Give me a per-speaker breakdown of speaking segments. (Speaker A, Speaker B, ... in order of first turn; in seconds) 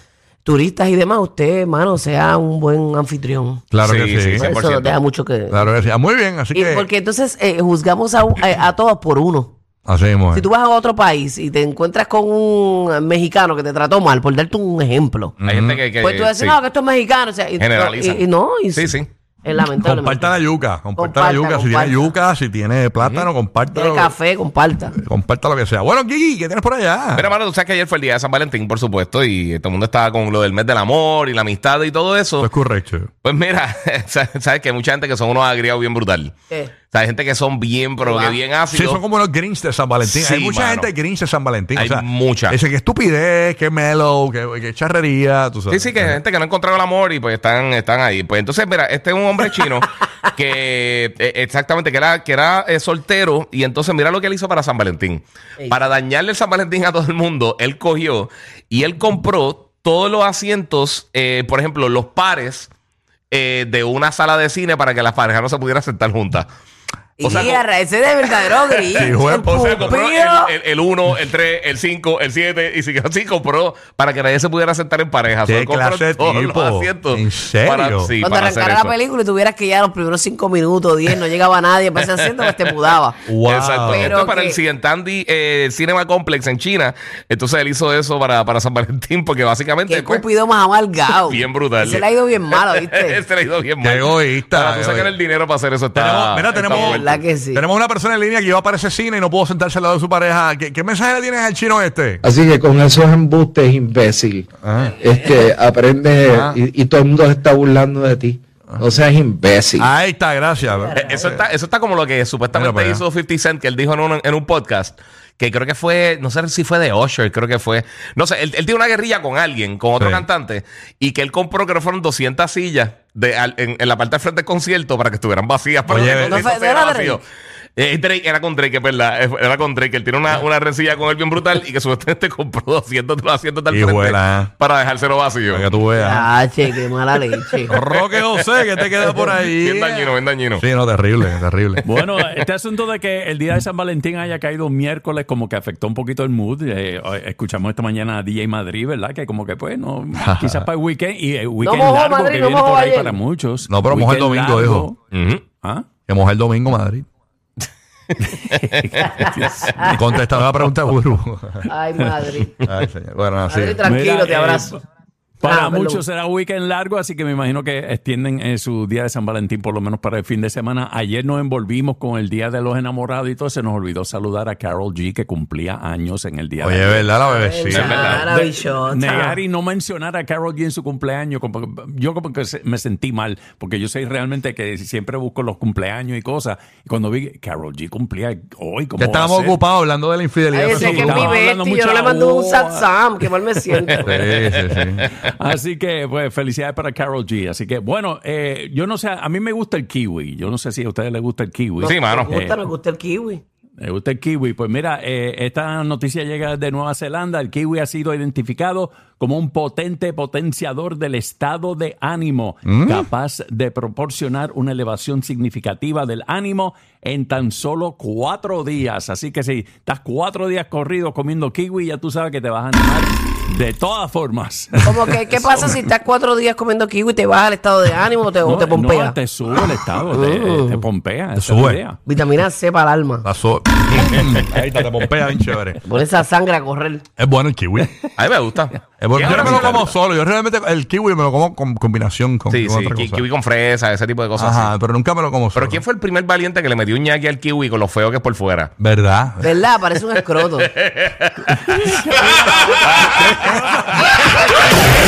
Speaker A: 0.4-3.6, 4.3-5.7, 6.5-9.5, 10.3-15.3, 16.0-20.4, 20.9-22.1, 23.7-25.0, 38.0-38.4, 55.6-55.9, 67.2-70.5, 78.2-83.2, 83.9-84.6, 89.9-93.2, 96.7-97.6, 110.8-111.3, 126.3-127.2, 136.0-137.7, 151.6-153.2, 159.0-159.9, 161.7-162.7, 163.5-164.8, 165.4-166.0, 177.2-179.4, 190.5-194.1, 201.8-203.4, 224.8-229.2, 230.1-230.8, 232.1-233.2, 235.8-237.0, 249.4-250.7
Speaker B: 3.7-4.5, 5.5-6.9, 9.8-10.5, 15.4-15.8, 19.8-24.1, 24.9-27.3, 32.4-33.1, 38.7-46.2, 69.0-69.9, 75.4-78.1, 83.2-84.1, 93.8-95.1, 95.9-102.2, 104.6-105.0, 106.3-106.6, 109.8-111.4, 112.5-113.0, 120.0-120.2, 125.9-126.5, 133.7-134.5, 135.5-136.3, 137.7-141.8, 150.1-150.7, 153.7-154.9, 156.1-157.1, 159.8-161.7, 162.6-163.8, 176.6-178.2, 189.0-191.3, 194.0-195.1, 212.6-213.0, 231.3-231.8, 233.2-235.8, 237.2-237.9, 239.0-243.2, 244.4-245.8, 248.8-249.6, 253.4-253.9
Speaker C: 3.8-5.0, 15.4-16.6, 17.6-18.2, 18.7-19.1, 23.0-23.3, 27.1-32.5, 33.2-36.3, 36.9-39.0, 40.0-40.9, 41.8-42.6, 45.7-62.7, 63.3-66.5, 67.2-67.6, 68.3-78.9, 83.5-90.2, 91.2-97.2, 110.9-127.2, 127.8-135.7, 137.7-140.6, 155.1-155.4, 158.5-159.1, 177.7-178.3, 194.3-195.3, 201.8-202.3, 238.2-239.9, 242.5-244.7, 245.5-248.7, 250.6-253.7
Speaker D: 102.2-109.9
Speaker E: 141.8-155.0, 155.5-155.9, 158.2-160.7, 163.8-164.8, 165.4-177.1, 177.9-189.6, 190.6-194.2, 195.2-202.6, 203.8-225.8, 228.4-232.0, 251.5-253.9